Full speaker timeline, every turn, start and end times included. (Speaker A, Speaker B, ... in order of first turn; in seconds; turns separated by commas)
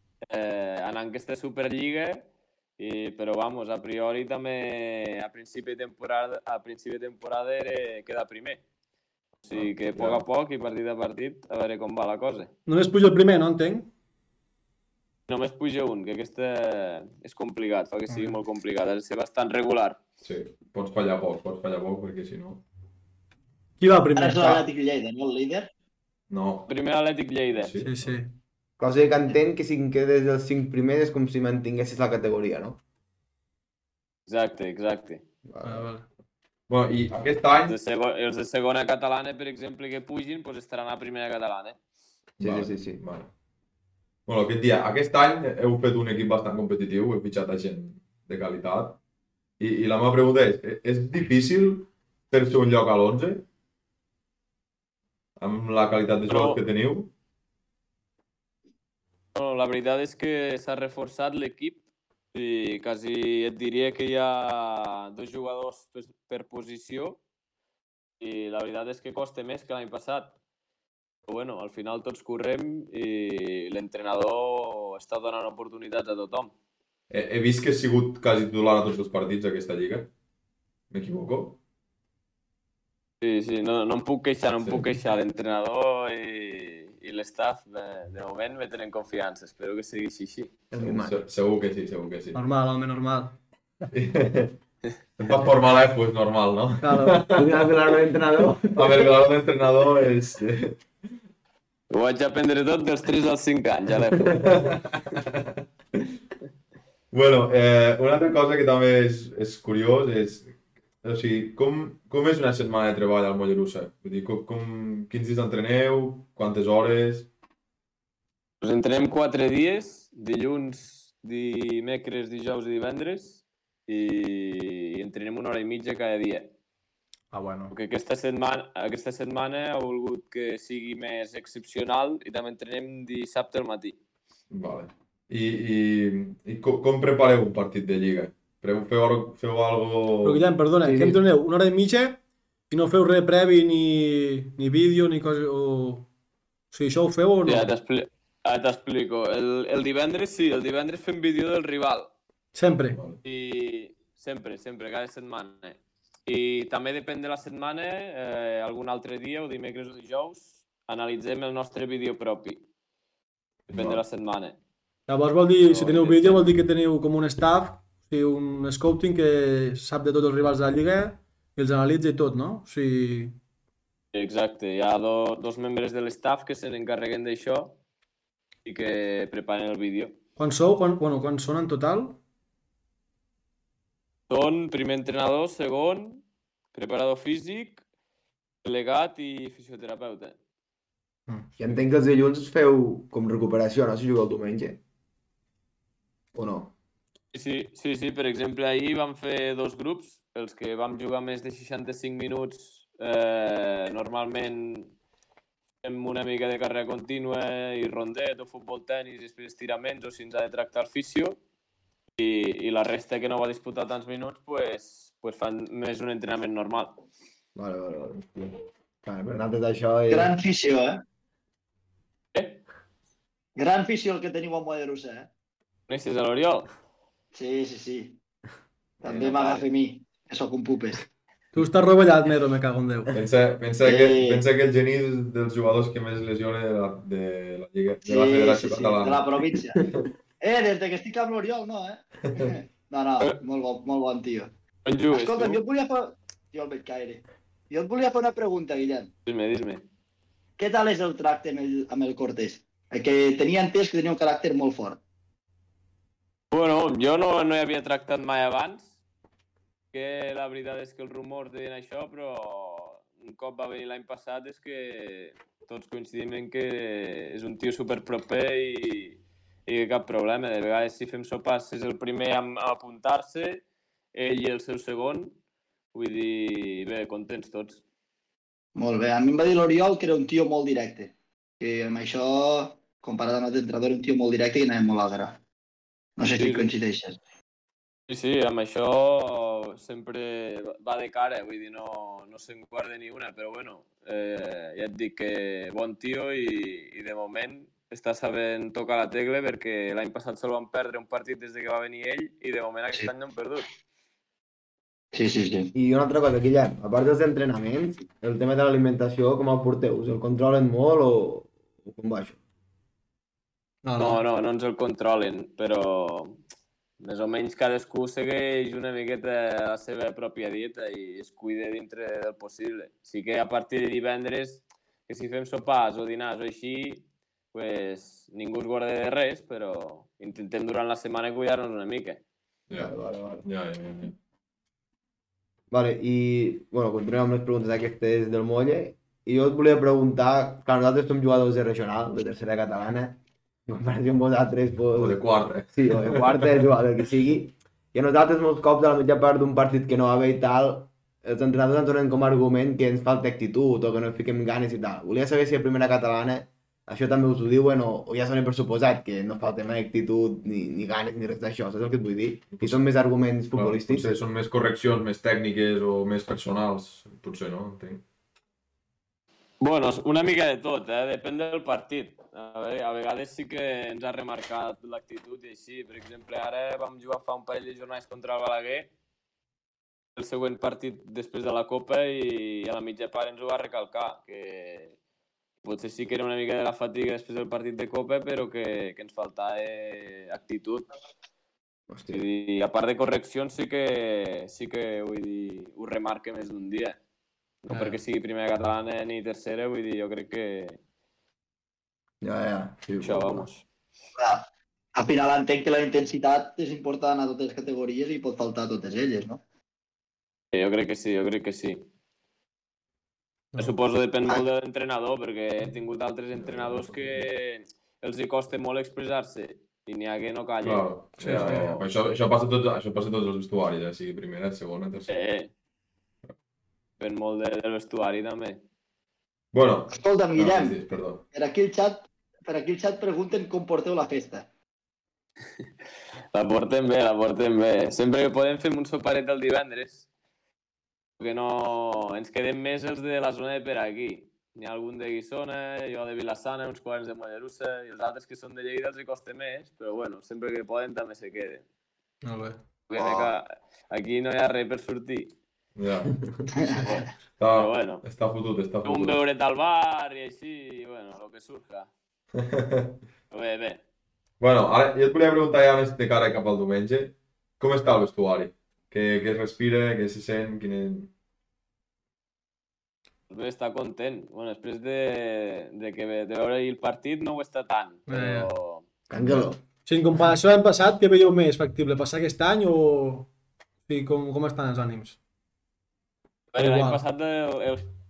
Speaker A: 0.3-8.6, Speaker A: 9.4-12.5, Speaker B: 9.5-10.2, Speaker C: 12.7-13.9, Speaker A: 15.3-20.0, Speaker C: 18.1-18.4, Speaker B: 20.2-22.6, Speaker C: 23.8-24.6, Speaker D: 24.2-25.7, Speaker B: 26.3-26.7, Speaker A: 26.7-27.7, Speaker B: 27.5-28.2, Speaker C: 27.8-28.3, Speaker E: 28.8-32.8, Speaker A: 34.3-35.2, Speaker E: 35.5-35.9, Speaker C: 35.6-36.0, Speaker B: 36.7-37.8, Speaker A: 37.7-41.8, Speaker B: 42.4-43.3, Speaker E: 42.4-43.0, Speaker B: 44.3-49.0, Speaker B: 49.6-53.5, Speaker B: 55.4-57.1, Speaker A: 56.3-56.6, Speaker A: 59.4-61.8, Speaker A: 62.3-67.2, Speaker A: 68.2-70.4, Speaker A: 71.3-76.5, Speaker B: 77.1-80.1, Speaker B: 80.9-81.6, Speaker A: 83.2-90.5, Speaker E: 90.7-91.2, Speaker B: 90.8-92.4, Speaker C: 92.3-93.4, Speaker B: 93.9-94.6, Speaker B: 95.2-97.7, Speaker C: 96.8-97.3, Speaker E: 97.3-99.2, Speaker B: 98.6-100.8, Speaker A: 101.9-104.5, Speaker B: 104.2-106.1, Speaker B: 107.1-117.3, Speaker A: 118.6-126.5, Speaker C: 127.3-127.7, Speaker A: 127.7-134.0, Speaker B: 134.5-140.5, Speaker C: 140.2-146.1, Speaker E: 140.8-141.2, Speaker C: 146.7-147.7, Speaker A: 147.4-152.1, Speaker C: 152.5-153.0, Speaker B: 152.9-153.2, Speaker A: 153.2-162.6, Speaker A: 163.7-164.6, Speaker B: 163.7-164.0, Speaker C: 165.1-173.4, Speaker A: 165.6-166.5, Speaker A: 174.1-177.8, Speaker A: 178.7-180.2, Speaker C: 180.4-182.2, Speaker A: 184.3-187.8, Speaker A: 188.6-190.3, Speaker E: 191.6-194.8, Speaker E: 196.3-196.7, Speaker A: 197.3-204.9, Speaker A: 205.8-211.4, Speaker A: 212.2-217.0, Speaker E: 217.6-218.5, Speaker E: 219.0-220.3, Speaker D: 220.1-221.0, Speaker A: 222.3-222.6, Speaker D: 223.6-225.3, Speaker A: 225.9-226.7, Speaker D: 227.3-228.2, Speaker D: 229.0-231.1, Speaker A: 229.1-229.6, Speaker C: 231.5-233.2, Speaker B: 233.1-239.3, Speaker D: 233.8-234.4, Speaker D: 238.1-239.8, Speaker D: 240.4-244.5, Speaker A: 244.8-245.6, Speaker D: 245.1-249.1, Speaker A: 249.3-249.8, Speaker D: 250.6-255.0, Speaker A: 256.5-259.0, Speaker A: 259.9-273.6, Speaker A: 274.1-275.4, Speaker A: 275.9-277.8, Speaker D: 278.8-285.4, Speaker D: 286.2-287.2, Speaker A: 286.3-286.7, Speaker A: 288.1-303.7, Speaker D: 305.1-305.7, Speaker E: 305.7-312.4, Speaker C: 313.8-314.2, Speaker A: 314.0-316.4, Speaker A: 317.0-332.2, Speaker E: 332.8-333.4, Speaker B: 333.4-334.1, Speaker E: 335.7-364.1, Speaker B: 344.9-346.7, Speaker B: 363.5-368.0, Speaker A: 369.6-378.9, Speaker A: 380.2-384.9, Speaker A: 385.6-390.9, Speaker E: 391.9-392.2, Speaker A: 392.1-397.0, Speaker A: 397.6-400.8, Speaker C: 397.7-398.0, Speaker E: 402.2-403.5, Speaker A: 403.0-403.6, Speaker D: 404.2-404.4, Speaker D: 405.0-409.4, Speaker A: 410.5-411.9, Speaker A: 413.6-421.7, Speaker B: 416.3-417.2, Speaker B: 420.6-425.1, Speaker C: 421.2-421.8, Speaker A: 425.1-425.5, Speaker A: 427.0-428.6, Speaker B: 429.5-431.2, Speaker D: 429.9-430.8, Speaker D: 431.3-434.5, Speaker A: 436.3-440.1, Speaker A: 441.2-451.6, Speaker C: 452.2-452.6, Speaker A: 452.9-455.3, Speaker B: 455.8-456.2, Speaker D: 456.5-457.1, Speaker B: 457.4-459.2, Speaker A: 457.5-458.0, Speaker A: 458.8-461.9, Speaker B: 462.4-463.0, Speaker A: 463.3-463.8, Speaker B: 464.4-471.1, Speaker A: 473.3-478.9, Speaker C: 478.1-478.5, Speaker E: 479.1-479.6, Speaker B: 479.2-479.5, Speaker C: 479.9-483.3, Speaker C: 483.9-485.2, Speaker A: 486.5-487.9, Speaker C: 486.6-487.0